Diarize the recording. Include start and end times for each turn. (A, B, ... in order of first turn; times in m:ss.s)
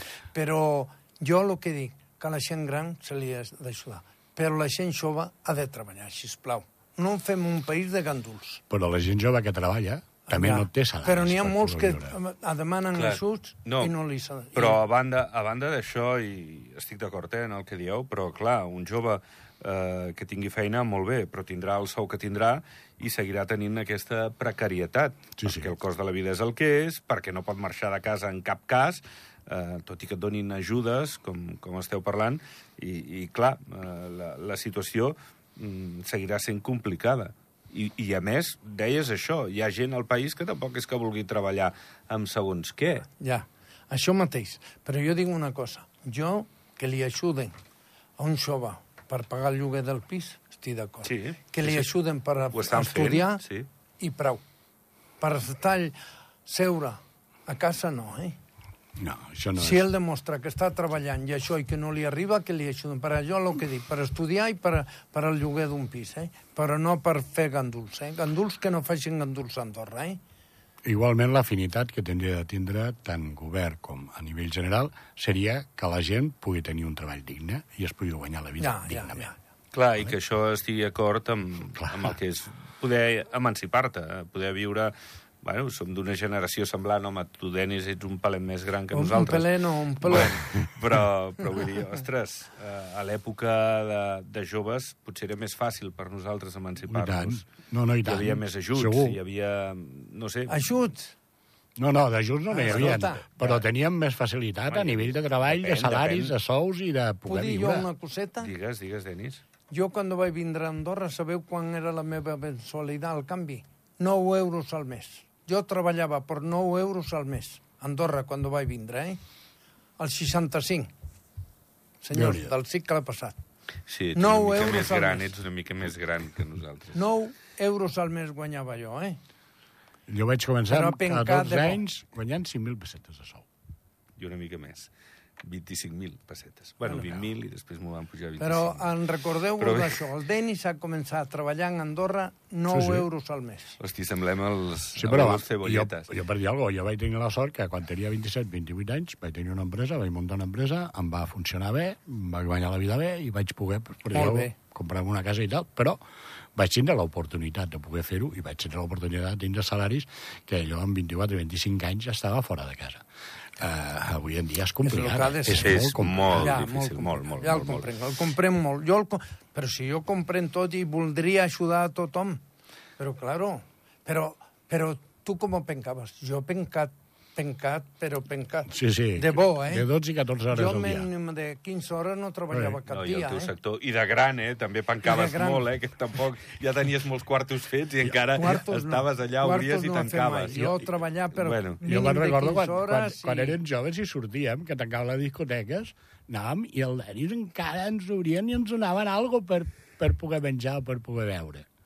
0:00.3-0:08.6 A
0:08.7-0:12.2 B
0:10.3-0:14.8 A
0:12.9-0:13.9 C
0:14.5-0:43.1 C
0:25.4-0:25.7 B
0:43.2-0:47.5 A
0:48.2-0:53.4 A
0:51.0-0:51.9 C
0:52.5-0:53.7 C
0:54.0-0:54.4 A
0:55.2-0:58.4 A
0:59.0-0:59.8 B
0:59.6-1:10.2 A
1:10.8-1:19.3 B
1:18.6-1:19.4 A
1:19.7-1:37.4 C
1:21.8-1:22.1 B
1:28.9-1:30.5 A
1:36.9-1:39.2 B
1:38.0-1:40.5 C
1:40.5-1:41.1 A
1:41.8-1:47.9 B
1:42.5-1:43.6 A
1:44.7-1:46.3 C
1:47.2-1:48.5 A
1:48.4-1:49.4 C
1:49.7-1:59.2 A
2:00.0-2:00.9 A
2:02.0-2:03.4 A
2:02.1-2:02.5 B
2:03.9-2:07.0 C
2:04.1-2:05.3 A
2:06.9-2:09.2 A
2:10.1-2:13.5 B
2:10.7-2:11.8 A
2:14.2-2:19.0 C
2:18.4-2:23.8 A
2:19.6-2:20.0 C
2:22.7-2:23.0 B
2:23.8-2:26.1 C
2:25.0-2:36.0 B
2:34.1-2:34.5 A
2:36.5-2:43.0 B
2:43.6-2:46.6 B
2:44.8-2:52.4 A
2:45.6-2:47.9 C
2:53.0-2:59.9 A
2:58.7-3:01.1 B
3:00.5-3:03.5 A
3:02.5-3:02.8 B
3:02.9-3:10.7 C
3:05.0-3:05.6 A
3:08.3-3:13.6 A
3:11.3-3:11.8 C
3:11.8-3:21.7 B